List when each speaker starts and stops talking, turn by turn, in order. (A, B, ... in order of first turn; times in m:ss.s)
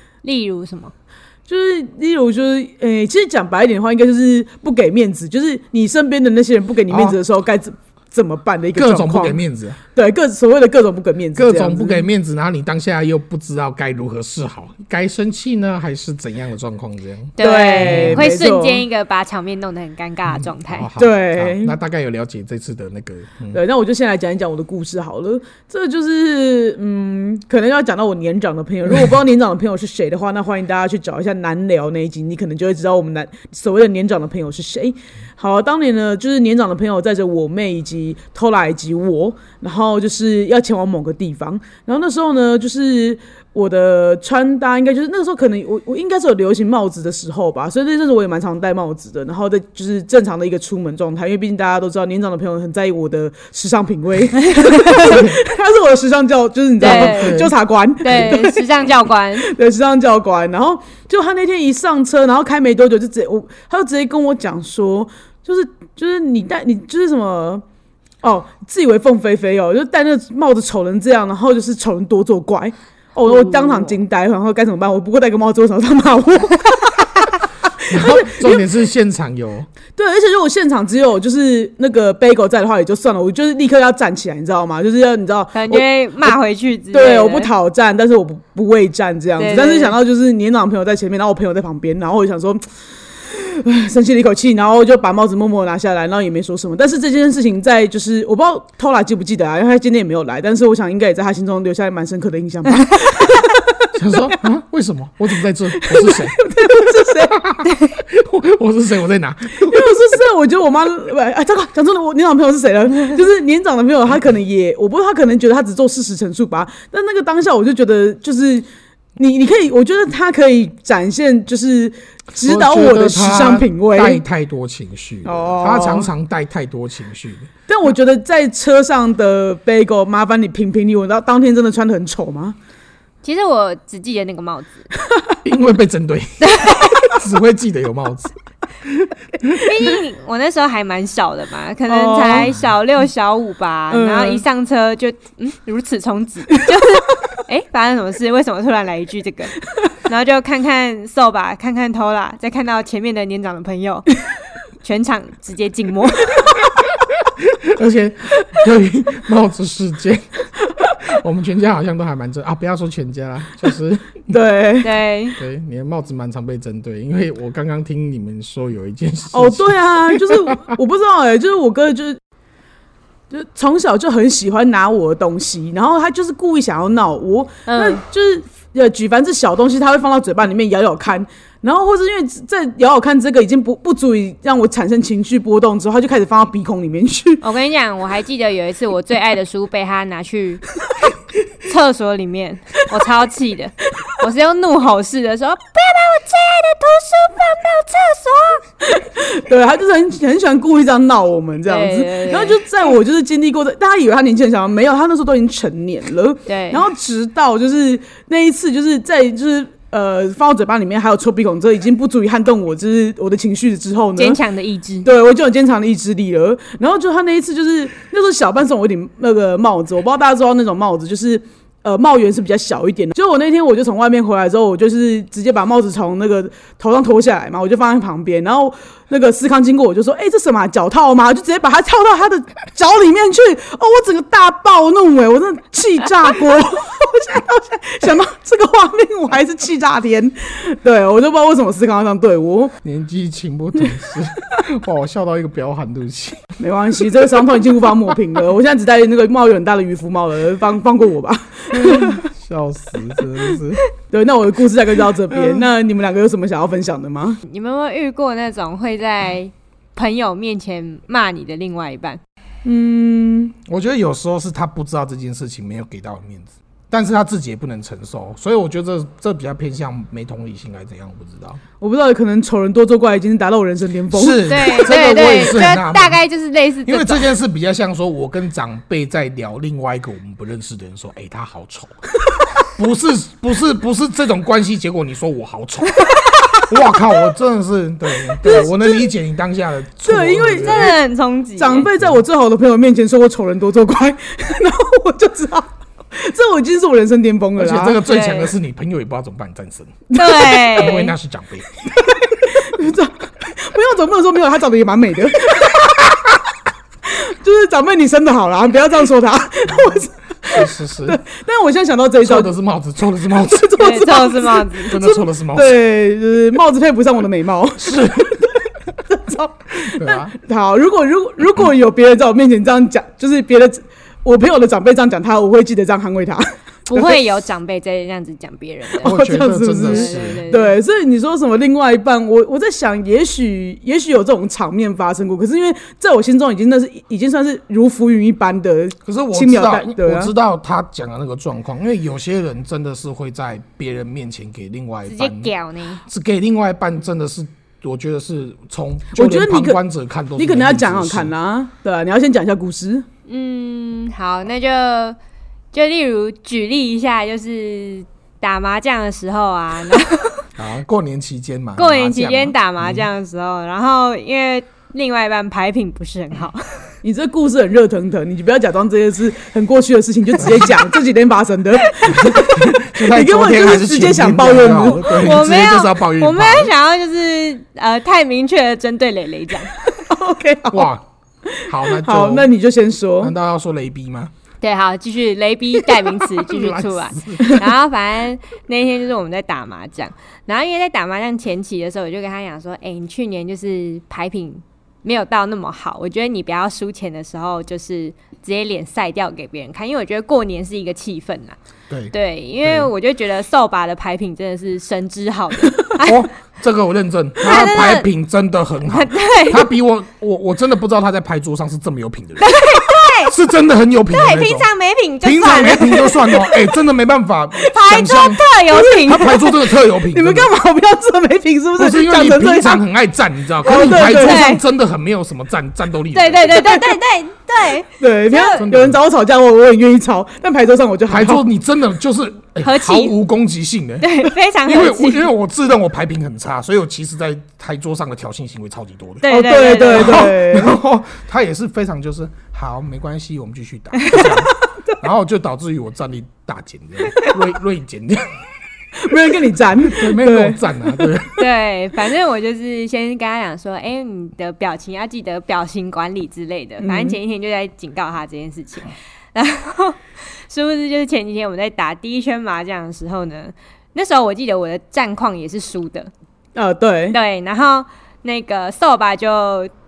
0:00.2-0:00.9 A
0:01.5-0:09.4 B
0:06.9-0:07.2 C
0:08.8-0:09.8 C
0:09.9-0:12.0 B
0:11.4-0:18.3 C
0:17.4-0:20.9 A
0:17.4-0:18.8 B
0:20.3-0:23.6 C
0:21.0-0:21.8 B
0:23.5-1:07.6 B
0:54.5-0:55.0 A
0:55.0-0:55.4 C
0:56.8-0:57.5 C
0:56.8-0:59.5 A
1:08.2-1:17.1 B
1:13.3-1:14.0 A
1:17.7-1:18.6 B
1:17.9-1:19.7 C
1:20.0-1:26.4 B
1:25.5-1:27.5 A
1:26.9-1:32.6 B
1:29.4-1:30.0 A
1:33.2-1:44.3 B
1:43.9-1:50.0 C
1:45.7-1:47.4 B
1:49.6-1:58.7 B
1:59.2-2:04.2 B
2:02.4-2:07.5 C
2:05.2-2:06.1 B
2:07.7-2:12.6 B
2:13.2-2:14.9 A
2:15.4-2:18.3 C
2:16.4-2:17.1 A
2:18.9-2:19.6 C
2:19.5-2:34.2 A
2:21.9-2:22.5 B
2:23.9-2:24.4 B
2:34.8-2:36.6 A
2:37.4-2:40.2 C
2:41.0-2:44.3 C
2:44.3-2:44.9 B
2:44.8-2:45.4 A
2:45.4-2:50.8 C
2:49.3-2:52.2 B
2:53.3-3:07.4 B
2:57.7-2:58.0 A
3:07.4-3:10.7 A
3:11.6-3:18.6 A
3:18.8-3:34.4 B
3:21.7-3:22.6 A
3:26.5-3:26.8 A
3:34.2-3:35.1 A
3:35.0-4:02.8 B
4:02.8-4:06.5 C
4:06.6-4:12.3 B
4:11.7-4:13.8 C
4:14.1-4:17.4 B
4:17.5-4:22.2 A
4:22.6-4:23.6 B
4:23.6-4:31.6 C
4:31.8-4:34.5 B
4:34.1-4:36.2 C
4:34.5-4:37.3 A
4:36.8-4:42.0 C
4:42.6-4:51.0 C
4:48.4-4:49.1 B
4:50.0-4:51.0 B
4:50.6-4:51.9 A
4:51.6-4:58.0 B
4:57.6-5:01.7 C
4:58.0-4:58.5 A
5:00.1-5:01.1 A
5:02.4-5:06.2 B
5:07.1-5:12.5 B
5:10.5-5:11.2 C
5:12.2-5:13.9 C
5:13.5-5:27.2 B
5:13.8-5:15.1 A
5:14.9-5:15.8 C
5:17.8-5:18.4 C
5:19.8-5:20.3 C
5:26.9-5:30.8 A
5:29.0-5:40.3 B
5:29.0-5:30.4 C
5:39.0-5:45.5 C
5:45.1-5:46.0 A
5:46.1-5:51.3 C
5:49.1-5:49.8 B
5:50.4-5:53.1 B
5:53.3-5:55.2 A
5:55.7-6:00.5 A
6:00.6-6:03.1 C
6:01.8-6:06.9 A
6:07.0-6:15.2 B
6:10.4-6:10.7 C
6:12.1-6:16.7 C
6:15.0-6:19.8 A
6:19.9-6:20.9 B
6:20.7-6:21.0 C
6:21.5-6:23.3 B
6:21.7-6:22.5 C
6:23.2-6:24.3 C
6:24.6-6:41.6 A
6:26.3-6:27.6 C
6:41.9-6:42.9 C
6:42.1-6:46.3 A
6:46.0-6:54.7 C
6:47.4-6:48.1 A
6:48.8-6:49.7 A
6:52.4-6:53.4 A
6:54.1-6:56.4 A
6:55.2-7:00.5 C
6:57.7-6:59.5 A
6:58.7-7:02.8 B
7:01.8-7:06.7 C
7:03.6-7:04.6 B
7:04.0-7:04.6 A
7:06.1-7:08.7 A
7:06.5-7:07.0 B
7:08.0-7:11.4 B
7:08.5-7:09.0 C
7:11.1-7:28.3 C
7:12.6-7:13.2 A
7:14.0-7:15.3 A
7:19.2-7:20.3 A
7:19.3-7:20.8 B
7:24.0-7:24.3 A
7:29.0-7:31.1 B
7:29.8-7:31.5 C
7:31.4-7:46.1 A
7:36.8-7:37.2 B
7:46.6-7:47.2 B
7:47.1-7:49.7 A